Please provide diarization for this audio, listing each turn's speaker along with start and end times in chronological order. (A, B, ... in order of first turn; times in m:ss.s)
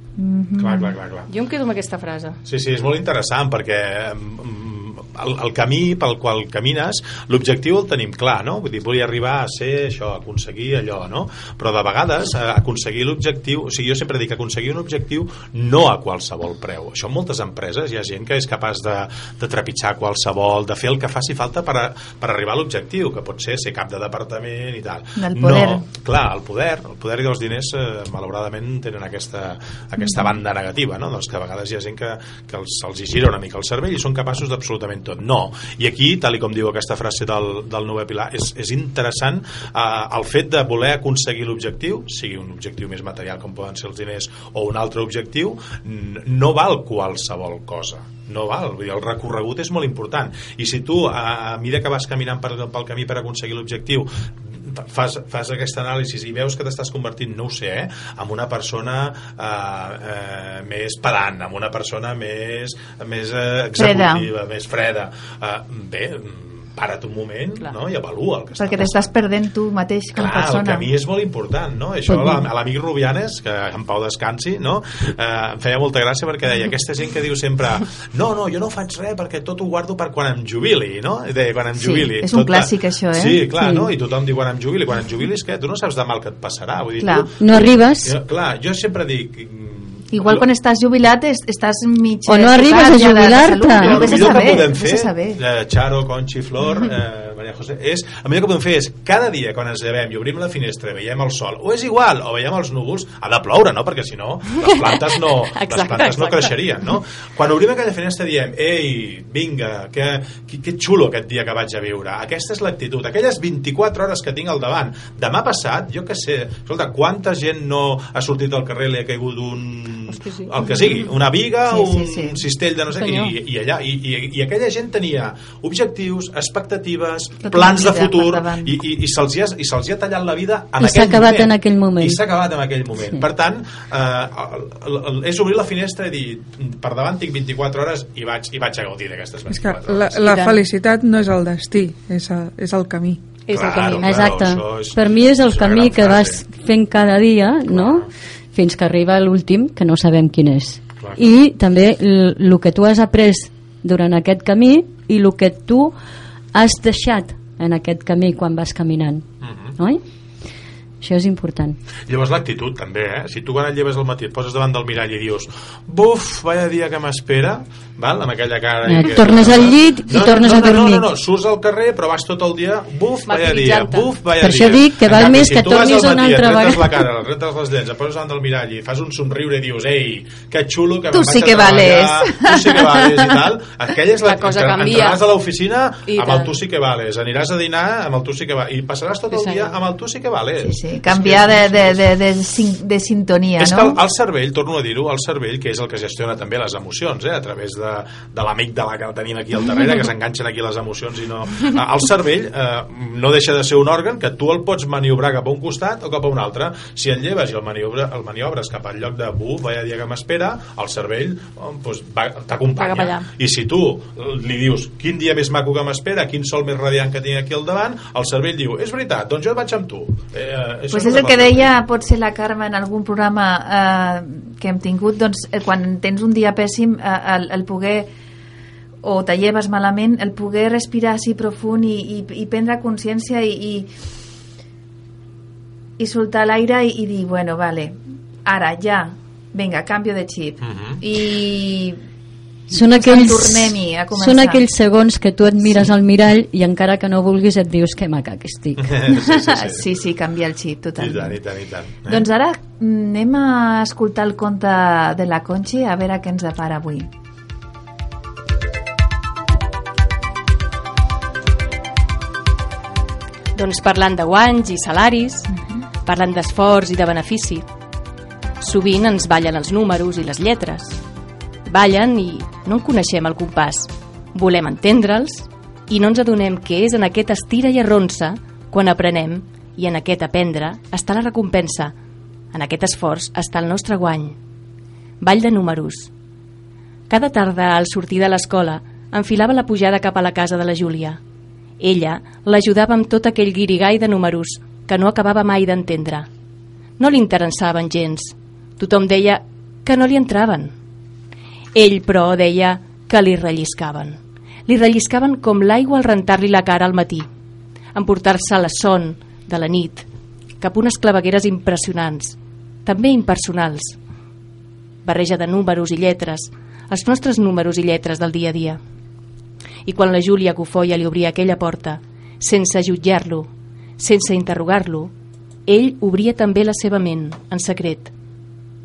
0:00.2-0:00.9 A
0:00.6-0:01.3 B
0:01.3-0:02.4 C
0:02.4-1:09.1 B
0:25.2-0:25.8 A
0:30.0-0:30.3 A
1:03.8-1:04.3 A
1:08.6-1:10.9 A
1:10.1-1:30.4 B
1:12.1-1:12.4 D
1:21.8-1:23.5 A
1:23.5-1:23.9 D
1:27.0-1:27.3 A
1:27.4-1:28.2 D
1:30.1-1:35.4 A
1:32.3-1:34.4 D
1:33.7-2:20.4 B
1:36.6-1:36.9 A
1:44.6-1:46.6 C
2:00.1-2:00.6 C
2:01.6-2:02.4 A
2:02.9-2:03.3 D
2:07.4-2:08.8 A
2:10.8-2:12.2 D
2:19.5-2:23.2 E
2:20.2-2:20.6 C
2:23.5-2:24.1 C
2:23.5-2:26.4 B
2:23.9-2:36.0 D
2:27.7-2:28.1 B
2:36.5-2:39.2 D
2:39.4-2:39.8 B
2:39.8-2:40.0 D
2:41.0-2:41.8 D
2:42.1-3:12.1 B
2:48.8-2:51.1 D
2:53.3-2:54.1 C
2:54.4-2:57.1 D
3:01.1-3:03.4 A
3:04.2-3:05.3 C
3:06.1-3:06.6 C
3:09.3-3:09.8 C
3:10.6-3:14.0 A
3:13.6-3:41.8 B
3:32.8-3:33.3 C
3:40.9-3:48.1 A
3:49.0-3:53.9 A
3:56.0-4:02.0 A
4:00.6-4:01.0 B
4:02.7-4:09.1 D
4:02.9-4:04.6 A
4:08.8-4:09.9 B
4:09.2-4:11.4 A
4:11.0-4:12.3 B
4:12.1-4:17.1 A
4:23.6-4:25.5 C
4:26.0-4:27.7 C
4:28.6-4:31.0 C
4:31.7-4:42.0 C
4:42.5-4:44.4 C
4:45.2-4:46.1 C
4:47.1-4:51.2 C
4:51.8-4:56.3 C
4:57.0-5:00.7 C
5:01.7-5:07.3 C
5:08.0-5:10.1 C
5:10.6-5:14.0 C
5:15.0-5:18.8 C
5:19.9-5:25.1 C
5:25.7-5:28.1 C